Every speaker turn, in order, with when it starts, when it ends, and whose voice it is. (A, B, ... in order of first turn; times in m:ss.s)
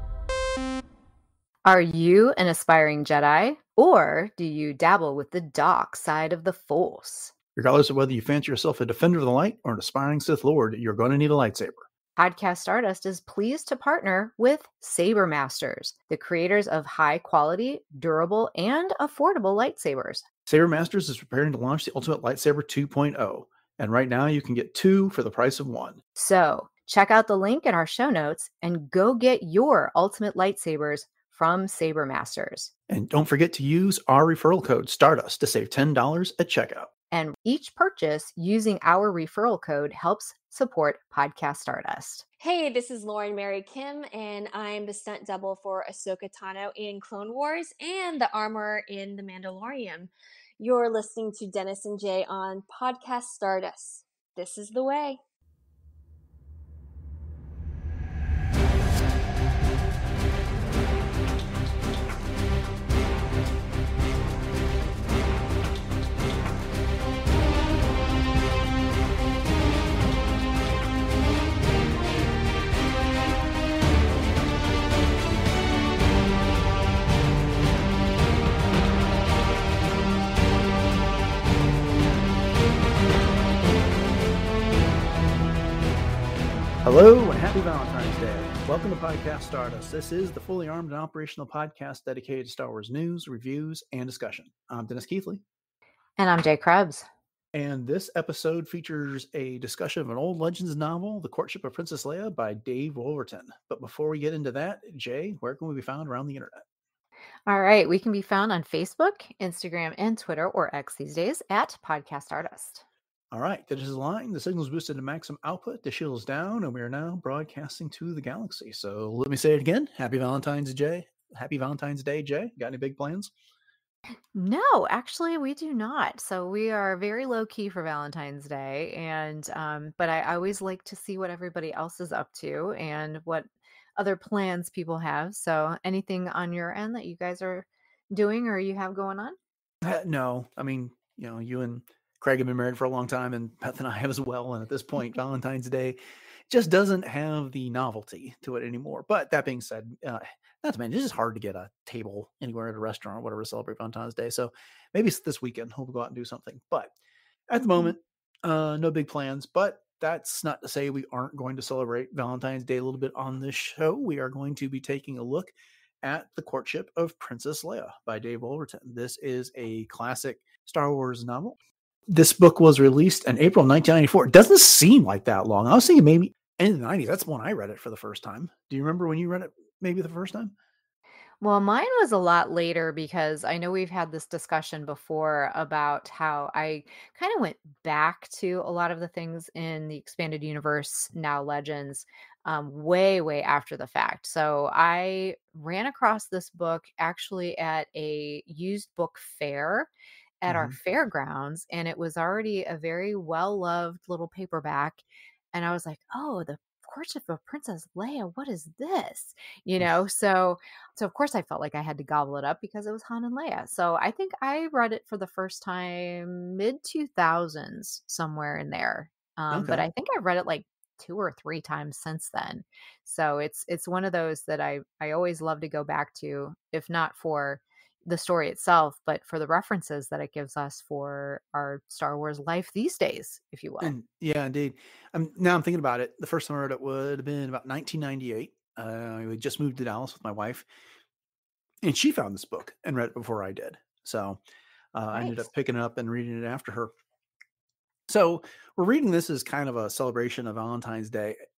0:01.6-0:07.3 A
0:07.6-0:11.8 B
0:12.2-0:20.2 A
0:20.5-0:26.0 B
0:26.2-0:32.7 A
0:32.9-0:36.9 B
0:37.1-0:42.2 A
0:42.4-0:55.2 C
1:26.8-1:35.4 B
1:36.2-1:37.1 A
1:37.5-1:46.6 B
1:47.5-1:52.8 A
1:53.3-2:03.3 B
2:04.3-2:19.4 A
2:19.8-2:26.0 B
2:26.5-2:36.9 B
2:37.5-2:51.6 B
2:52.1-3:00.5 B
3:01.4-3:19.9 A
3:20.4-3:53.9 A
3:20.5-3:20.8 B
3:39.5-3:39.9 B
3:53.8-4:00.7 B
4:01.8-4:04.4 B
4:04.9-4:06.9 B
4:05.1-4:05.5 A
4:08.1-4:11.4 B